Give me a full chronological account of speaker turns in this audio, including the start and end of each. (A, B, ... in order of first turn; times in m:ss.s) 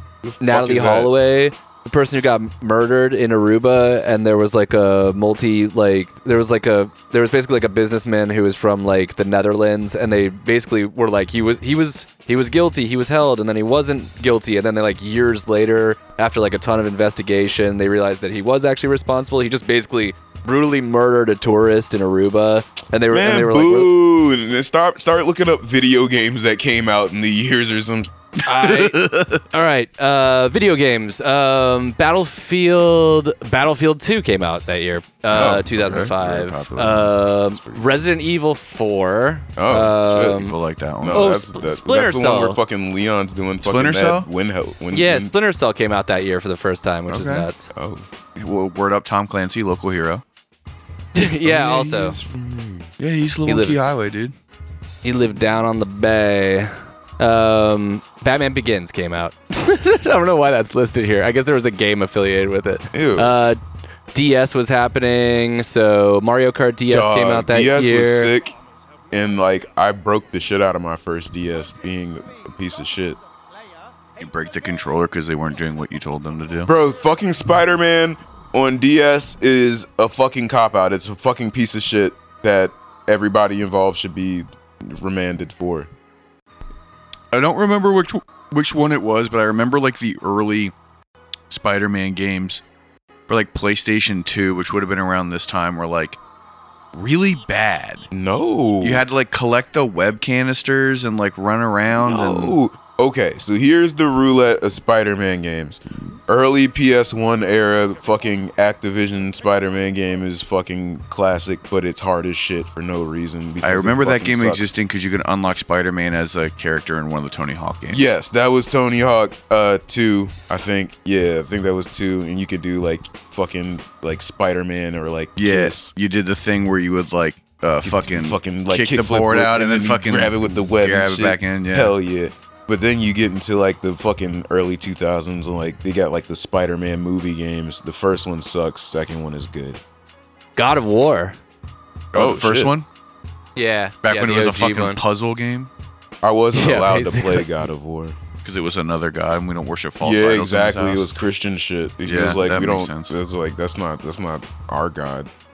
0:00.2-0:01.1 A
0:00.4-0:23.9 B
0:23.1-0:28.1 A
0:28.4-0:29.4 C
0:28.4-0:40.6 B
0:35.3-0:37.8 C
0:35.3-0:36.1 A
0:39.6-0:40.5 A
0:40.3-0:41.2 C
0:41.0-0:45.3 A
0:41.1-0:42.6 B
0:43.6-0:44.3 C
0:44.9-0:47.7 B
0:47.1-0:47.5 C
0:47.7-0:48.0 A
0:48.4-0:50.2 C
0:51.1-0:52.2 B
0:51.4-0:52.9 A
0:53.0-0:54.3 C
0:53.5-0:53.8 B
0:55.0-1:03.6 B
1:02.9-1:03.3 A
1:04.1-1:08.3 B
1:06.9-1:08.6 A
1:09.1-1:13.2 A
1:14.2-1:16.7 C
1:16.6-1:25.9 A
1:27.3-1:30.7 C
1:31.5-1:32.6 C
1:33.3-1:36.2 C
1:36.9-1:38.1 C
1:38.1-1:39.0 A
1:38.8-1:42.6 C
1:41.9-1:54.7 A
1:53.6-1:58.0 C
1:57.9-2:05.9 A
2:05.4-2:11.9 C
2:07.8-2:19.8 A
2:20.6-2:21.4 B
2:22.1-2:22.7 A
2:22.1-2:22.9 C
2:23.6-2:25.0 B
2:24.0-2:25.7 C
2:26.2-2:28.2 A
2:26.5-2:27.5 B
2:28.4-2:31.1 C
2:30.0-2:35.3 A
2:32.0-2:33.1 C